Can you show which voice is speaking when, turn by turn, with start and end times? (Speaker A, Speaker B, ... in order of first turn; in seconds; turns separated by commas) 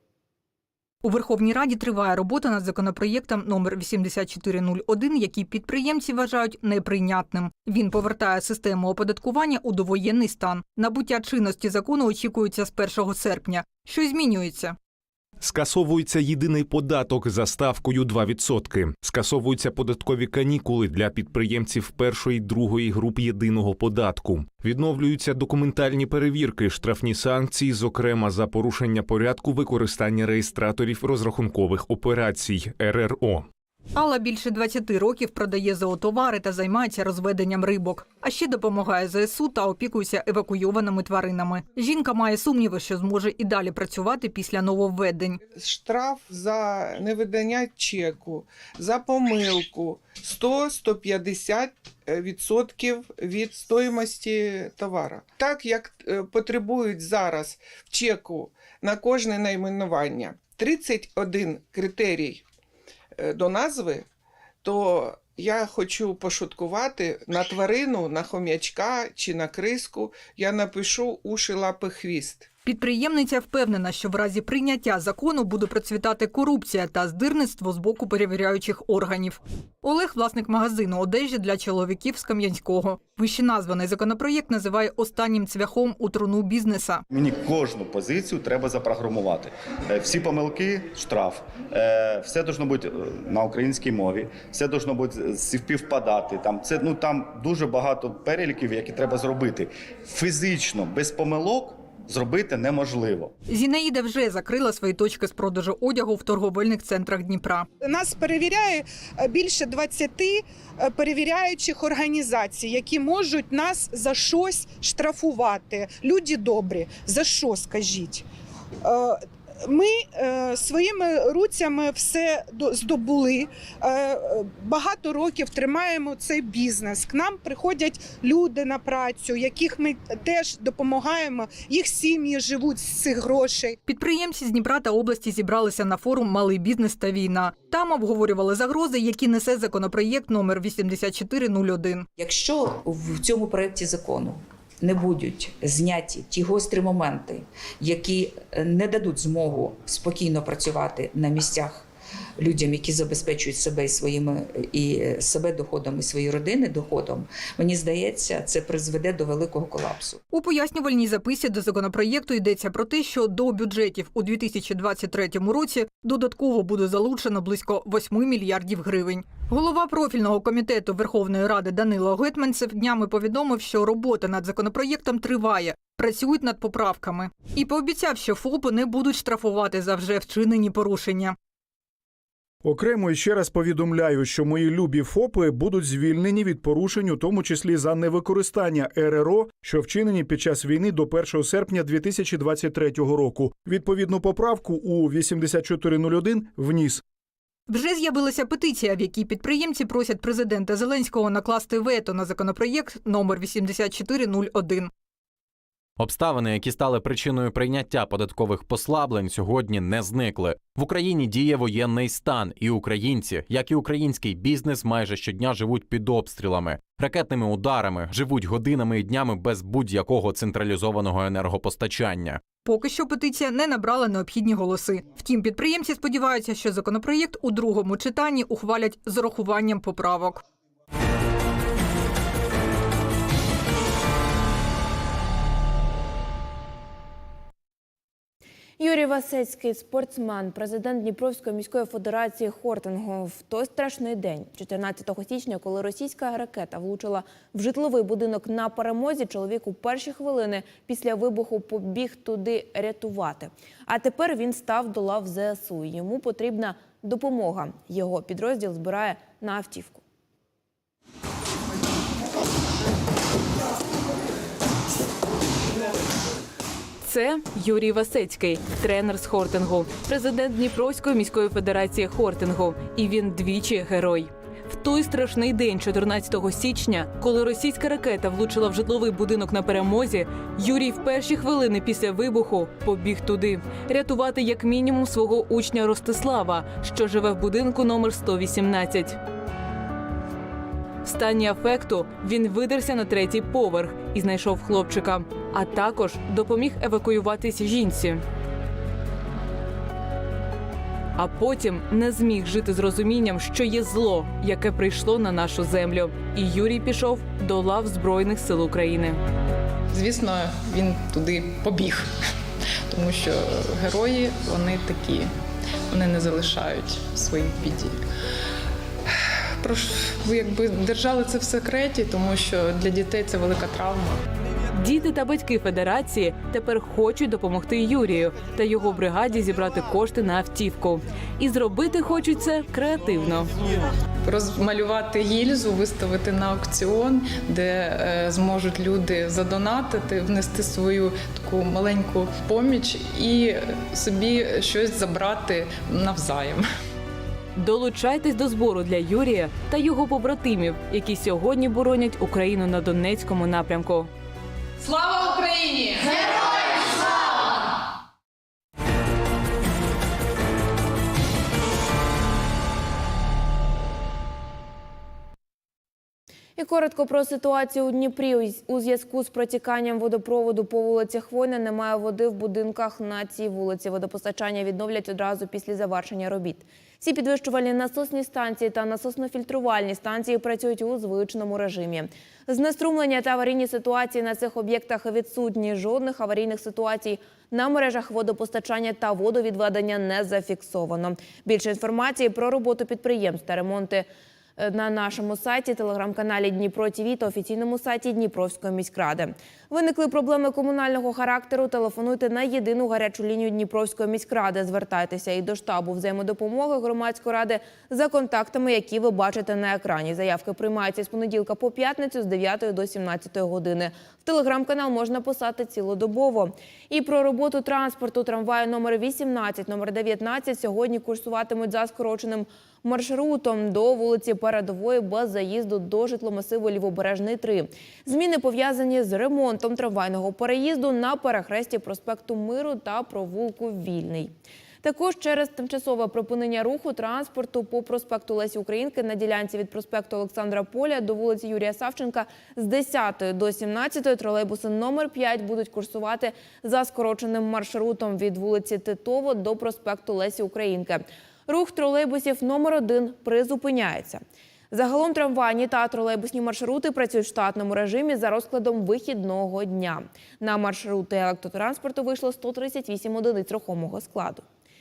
Speaker A: 1.0-14.8, Speaker B: 15.4-33.5, Speaker A: 33.9-45.4, Speaker C: 45.5-62.4, Speaker C: 63.2-64.1, Speaker C: 64.6-72.5, Speaker A: 72.6-87.0, Speaker D: 87.1-103.3, Speaker A: 103.5-107.7, Speaker E: 107.8-118.2, Speaker E: 118.8-133.8, Speaker A: 133.8-142.1, Speaker F: 142.2-151.8, Speaker F: 152.4-160.2, Speaker A: 160.3-181.3, Speaker G: 182.6-197.0, Speaker A: 197.7-204.9, Speaker H: 206.0-222.4, Speaker A: 222.6-230.4, Speaker I: 238.8-260.0, Speaker J: 267.0-289.1, Speaker J: 291.0-298.2, Speaker J: 301.1-309.2, Speaker K: 309.9-312.0, Speaker K: 312.9-315.2, Speaker K: 315.9-317.9, Speaker K: 319.6-324.2, Speaker J: 324.7-333.5, Speaker K: 334.3-346.6, Speaker J: 347.6-354.1, Speaker I: 366.6-464.4